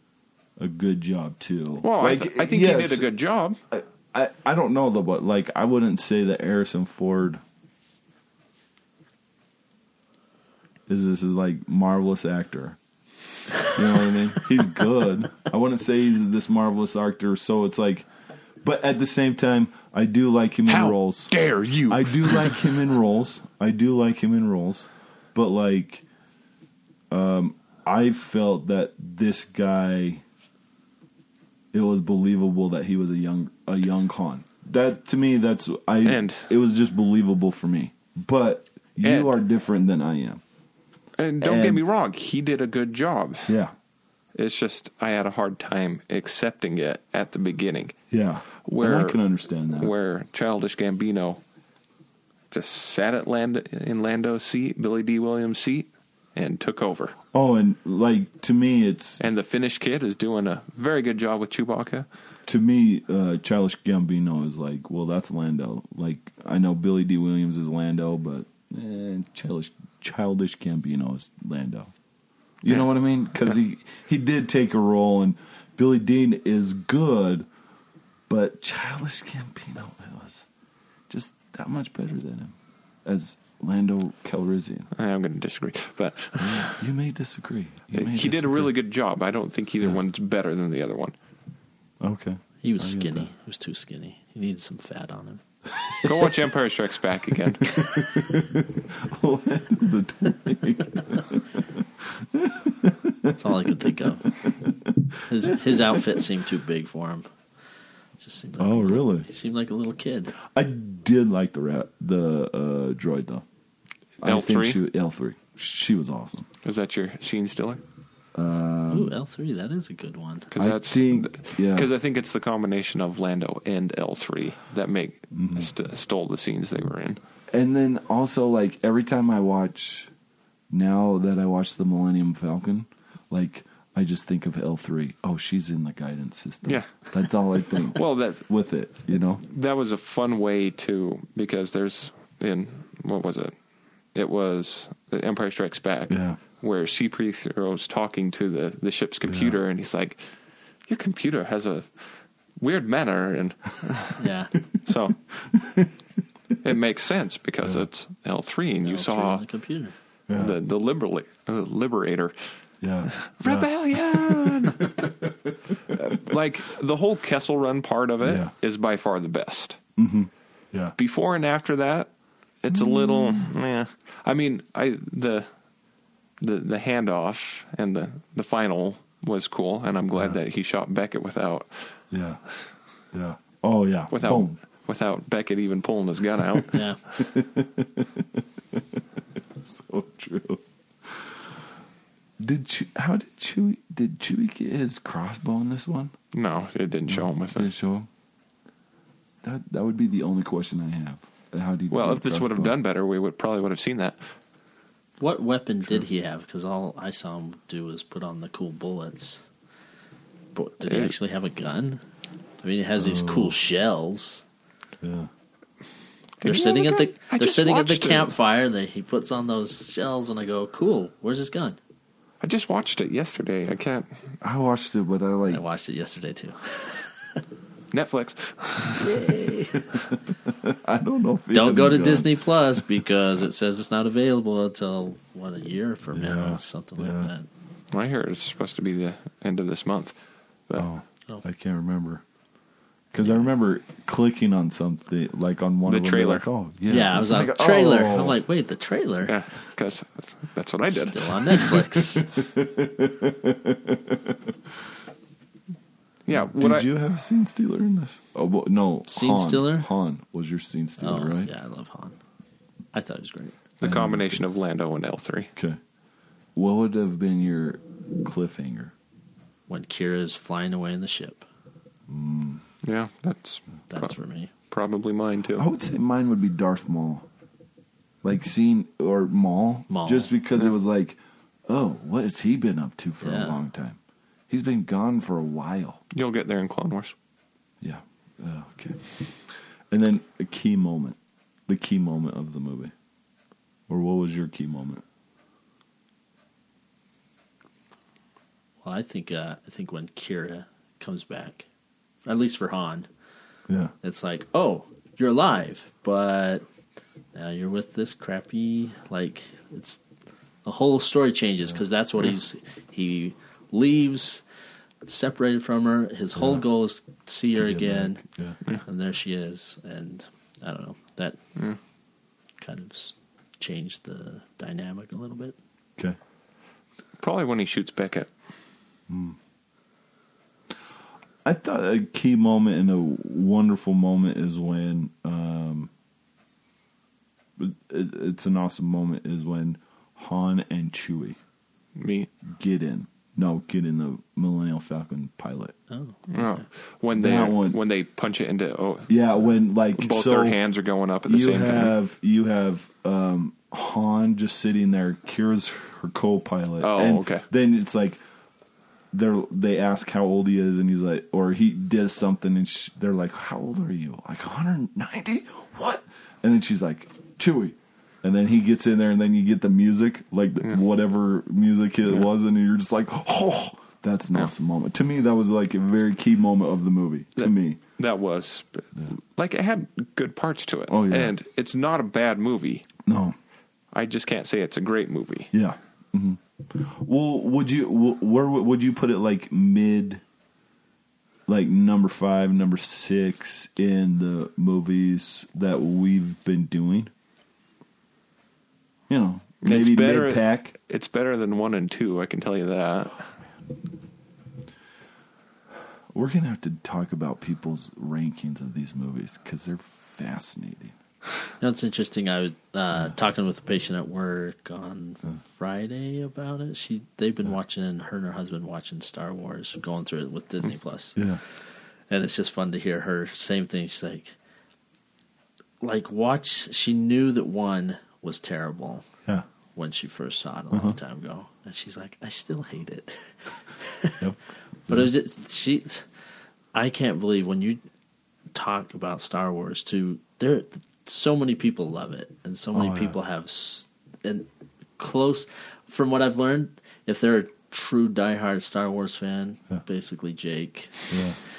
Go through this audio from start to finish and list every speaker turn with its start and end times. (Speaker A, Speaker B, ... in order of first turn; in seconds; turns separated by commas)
Speaker A: 0.6-3.1, Speaker B: 1.8-3.6, Speaker A: 3.7-7.4, Speaker A: 10.9-12.8, Speaker A: 13.6-18.1, Speaker A: 18.6-21.3, Speaker B: 20.7-22.7, Speaker A: 21.8-26.0, Speaker A: 27.1-30.2, Speaker A: 31.7-40.4, Speaker B: 36.0-36.5, Speaker B: 39.0-39.3, Speaker B: 41.2-43.5, Speaker A: 41.4-41.8, Speaker A: 43.5-43.7, Speaker B: 44.3-48.0, Speaker A: 48.1-49.9, Speaker B: 48.6-49.2, Speaker B: 49.8-51.4, Speaker B: 52.5-57.1, Speaker A: 57.3-59.2, Speaker B: 59.2-62.1, Speaker A: 62.5-71.9, Speaker A: 72.6-77.5, Speaker A: 78.3-80.5, Speaker A: 81.1-84.9, Speaker B: 84.9-86.8, Speaker A: 86.4-88.7, Speaker B: 87.9-91.1, Speaker A: 92.0-93.3, Speaker C: 92.6-95.4, Speaker B: 96.0-97.8, Speaker A: 97.6-103.4, Speaker C: 103.3-104.4, Speaker A: 104.2-106.2, Speaker C: 105.3-107.3, Speaker C: 108.2-110.3, Speaker A: 108.6-109.3, Speaker A: 110.4-113.4, Speaker A: 114.2-116.5, Speaker B: 114.2-114.8, Speaker B: 116.6-117.8, Speaker A: 118.3-119.2, Speaker C: 118.9-120.5, Speaker B: 120.5-127.2, Speaker A: 120.5-121.9, Speaker A: 125.3-125.7, Speaker A: 127.5-130.1, Speaker A: 130.7-139.4, Speaker B: 136.6-138.4, Speaker B: 139.4-143.5, Speaker B: 144.1-150.2, Speaker A: 146.1-146.4, Speaker A: 149.2-149.6, Speaker B: 150.8-154.2, Speaker C: 154.2-154.5, Speaker B: 154.7-155.2, Speaker A: 155.4-155.9, Speaker B: 156.6-159.4, Speaker A: 157.6-157.9, Speaker C: 158.8-159.9, Speaker A: 160.3-160.6, Speaker B: 160.3-162.3, Speaker A: 162.8-166.0, Speaker B: 163.1-165.1, Speaker B: 165.8-169.8, Speaker A: 168.2-168.5, Speaker A: 170.0-170.9, Speaker B: 170.9-172.1, Speaker B: 172.6-175.5, Speaker A: 172.7-173.5, Speaker B: 176.4-182.0, Speaker A: 182.1-182.4, Speaker A: 183.1-184.6, Speaker B: 184.1-186.8, Speaker C: 186.7-187.0, Speaker A: 187.1-189.0, Speaker A: 189.6-191.4, Speaker A: 192.4-196.1, Speaker B: 196.3-197.7, Speaker A: 197.1-198.1, Speaker A: 199.4-202.8, Speaker B: 201.9-204.2, Speaker C: 205.2-209.4, Speaker C: 210.5-212.0, Speaker B: 210.8-211.2, Speaker C: 212.6-214.4, Speaker A: 213.0-213.6, Speaker A: 215.0-215.3, Speaker B: 216.4-218.3, Speaker C: 216.4-221.8, Speaker B: 222.4-224.2, Speaker A: 224.4-225.6, Speaker C: 225.5-227.4, Speaker B: 227.9-229.2, Speaker C: 228.9-229.9, Speaker A: 229.7-232.9, Speaker C: 231.5-237.5, Speaker A: 236.1-237.3, Speaker B: 237.9-240.8, Speaker A: 240.7-242.2, Speaker A: 243.1-248.4, Speaker B: 245.9-246.5, Speaker C: 246.9-249.4, Speaker B: 249.2-252.1, Speaker C: 250.9-252.3, Speaker A: 252.2-254.5, Speaker B: 256.2-256.9, Speaker A: 256.3-261.5, Speaker C: 259.1-259.9, Speaker C: 261.0-262.2, Speaker C: 262.9-263.6, Speaker B: 263.8-265.5, Speaker A: 263.8-264.4, Speaker A: 266.6-268.9, Speaker C: 269.7-271.4, Speaker A: 272.1-272.6, Speaker B: 272.8-274.1, Speaker C: 273.9-274.5, Speaker B: 274.7-275.7, Speaker A: 275.6-277.3, Speaker A: 278.2-286.0, Speaker C: 279.9-280.3, Speaker C: 283.2-283.6, Speaker B: 286.1-287.1, Speaker A: 287.8-292.9, Speaker A: 293.9-295.0, Speaker C: 298.8-301.6, Speaker C: 302.2-303.1, Speaker A: 303.7-303.9, Speaker C: 304.0-306.6, Speaker C: 307.3-310.0, Speaker C: 310.6-314.4, Speaker C: 315.0-321.4, Speaker A: 316.3-316.6, Speaker A: 317.6-318.6, Speaker C: 322.6-325.5, Speaker B: 327.2-328.3, Speaker A: 329.1-329.4, Speaker A: 331.4-335.9, Speaker A: 337.6-341.4, Speaker B: 341.9-342.3, Speaker A: 342.4-345.7, Speaker C: 345.9-346.5, Speaker B: 346.3-349.1, Speaker A: 347.1-347.8, Speaker A: 349.1-350.6, Speaker B: 349.9-351.9, Speaker A: 351.2-358.2, Speaker B: 356.8-357.4, Speaker A: 359.1-377.8, Speaker B: 377.4-382.9, Speaker A: 380.9-381.3, Speaker A: 383.0-383.4, Speaker B: 383.9-385.5, Speaker A: 385.5-390.2, Speaker A: 391.5-397.1, Speaker A: 399.1-400.8, Speaker B: 399.6-403.3, Speaker A: 406.1-411.0, Speaker C: 411.6-421.2, Speaker C: 422.1-424.3, Speaker C: 425.8-429.0, Speaker C: 429.7-434.2, Speaker A: 430.7-431.0, Speaker C: 434.9-436.1, Speaker C: 436.7-437.8, Speaker C: 438.5-444.5, Speaker A: 442.7-443.1, Speaker C: 445.0-451.1, Speaker A: 451.1-451.4